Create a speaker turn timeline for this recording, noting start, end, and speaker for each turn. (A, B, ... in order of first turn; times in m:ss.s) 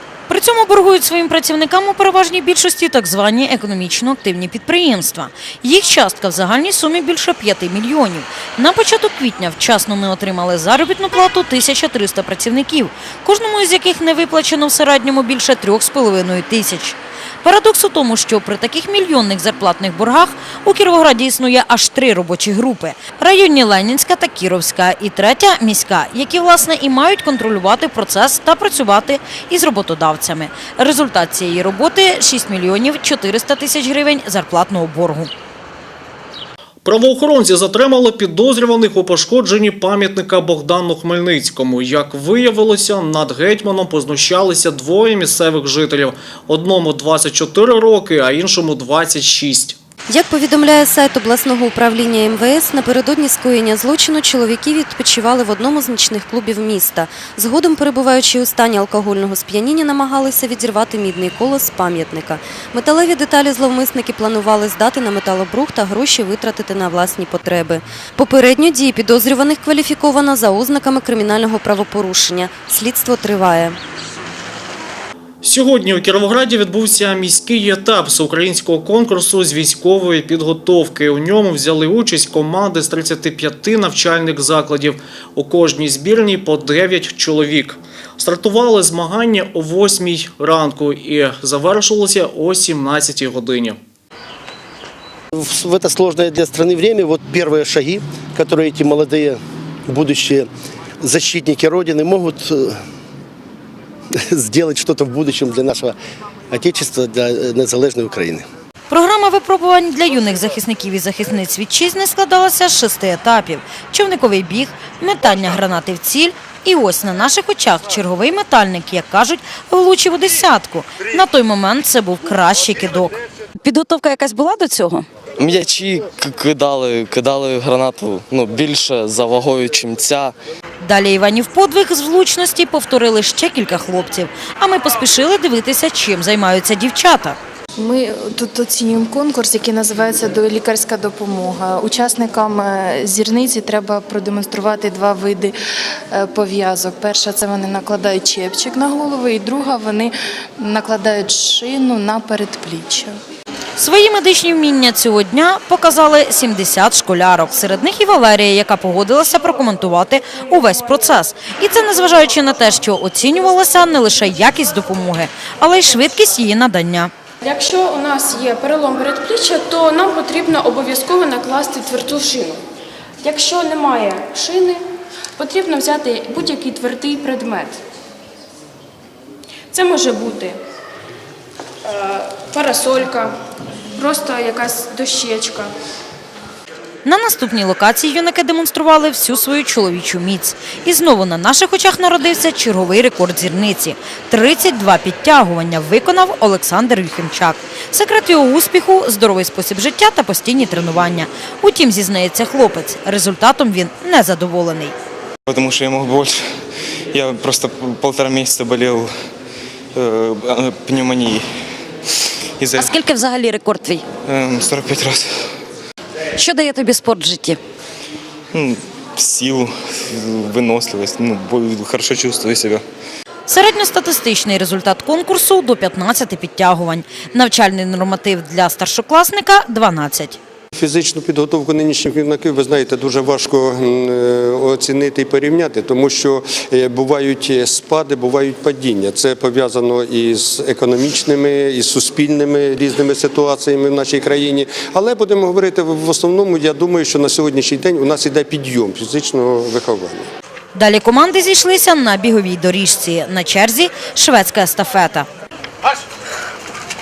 0:00.3-0:35.3 A
0:36.8-0:49.8 B
0:50.1-1:13.8 C
1:15.4-1:33.8 B
1:35.4-1:40.5 D
1:41.0-1:42.8 D
1:44.4-1:45.9 D
1:46.5-1:48.4 D
1:48.9-2:03.2 A
2:03.6-2:05.0 E
2:05.4-2:10.3 F
2:10.8-2:17.4 A
2:17.8-2:25.5 G
2:26.1-2:33.1 G
2:33.8-2:47.1 A
2:47.4-2:52.6 H
2:53.2-2:54.8 H
2:55.4-2:57.8 H
2:59.7-3:00.6 H
3:01.8-3:03.4 H
3:04.0-3:05.7 H
3:07.0-3:24.9 A
3:25.5-3:26.4 I
3:27.1-3:29.1 I
3:30.0-3:31.4 I
3:32.6-3:32.9 I
3:32.8-3:34.0 E
3:34.3-3:35.3 I
3:36.4-3:37.6 E
3:38.5-3:42.8 I
3:43.5-3:50.4 A
3:50.8-4:10.3 J
4:10.8-4:15.3 A